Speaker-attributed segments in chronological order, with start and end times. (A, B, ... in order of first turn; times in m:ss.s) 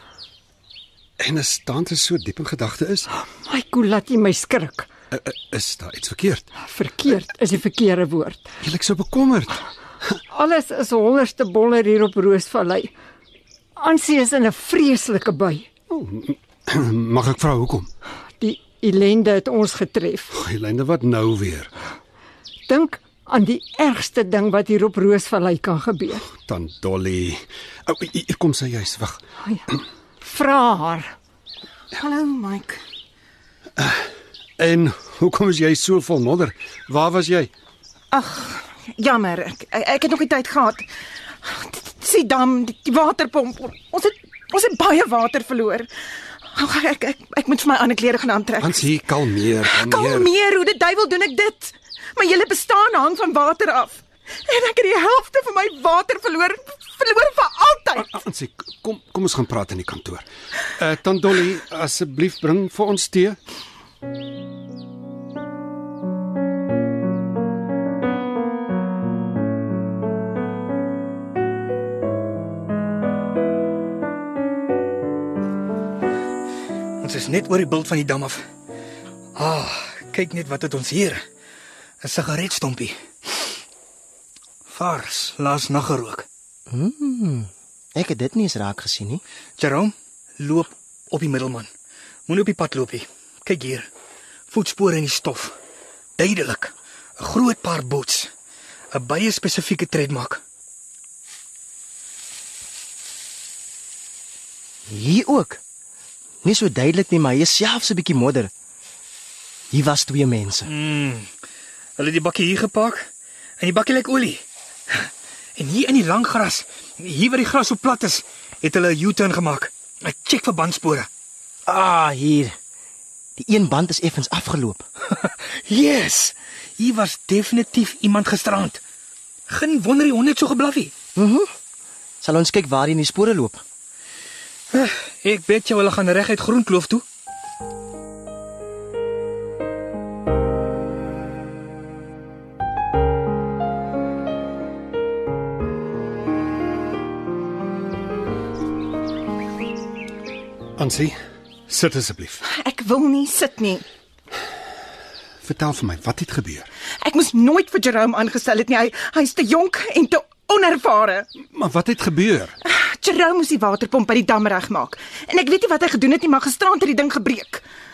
0:01.2-0:03.1 A
0:03.4-0:04.9 B
0:05.1-0:06.5 A
0:06.6-0:08.5 B
0:08.6-0:09.6 A
0:10.3-0:12.9 B
0:13.8-0:15.7 B
0:15.9-0:17.9 A
0:18.4-0:20.3 B
0:20.3-0:21.7 A
0:22.7-0:26.3 B
0:26.4-0:29.2 A
0:30.2-0:31.1 B
0:32.0-0:32.8 C
0:33.8-0:37.5 A
0:38.1-0:40.9 C
0:41.4-0:45.9 C
0:46.5-0:48.8 C
0:48.6-0:50.3 A
0:49.6-0:58.2 C
0:58.1-1:03.4 A
1:17.0-1:18.4 D
1:19.4-1:21.2 D
1:22.0-1:23.5 D
1:24.7-1:26.3 D
1:26.7-1:29.2 E
1:29.6-1:31.7 D
1:32.3-1:33.9 D
1:34.5-1:35.6 D
1:36.2-1:38.3 D
1:38.9-1:40.4 D
1:44.9-1:45.6 E
1:46.4-1:48.5 E
1:49.7-1:50.7 E
1:50.7-1:51.3 D
1:52.0-1:53.1 D
1:53.6-2:01.1 D
2:01.7-2:02.6 E
2:03.4-2:04.8 E
2:05.1-2:08.8 D
2:09.5-2:11.0 D
2:11.2-2:11.5 E
2:12.2-2:13.6 E
2:14.7-2:17.0 D
2:30.8-2:31.2 A
2:31.7-2:32.4 A
2:32.5-2:33.8 C
2:35.4-2:36.7 A
2:37.0-2:41.3 C
2:41.5-2:42.6 A
2:42.6-2:47.6 C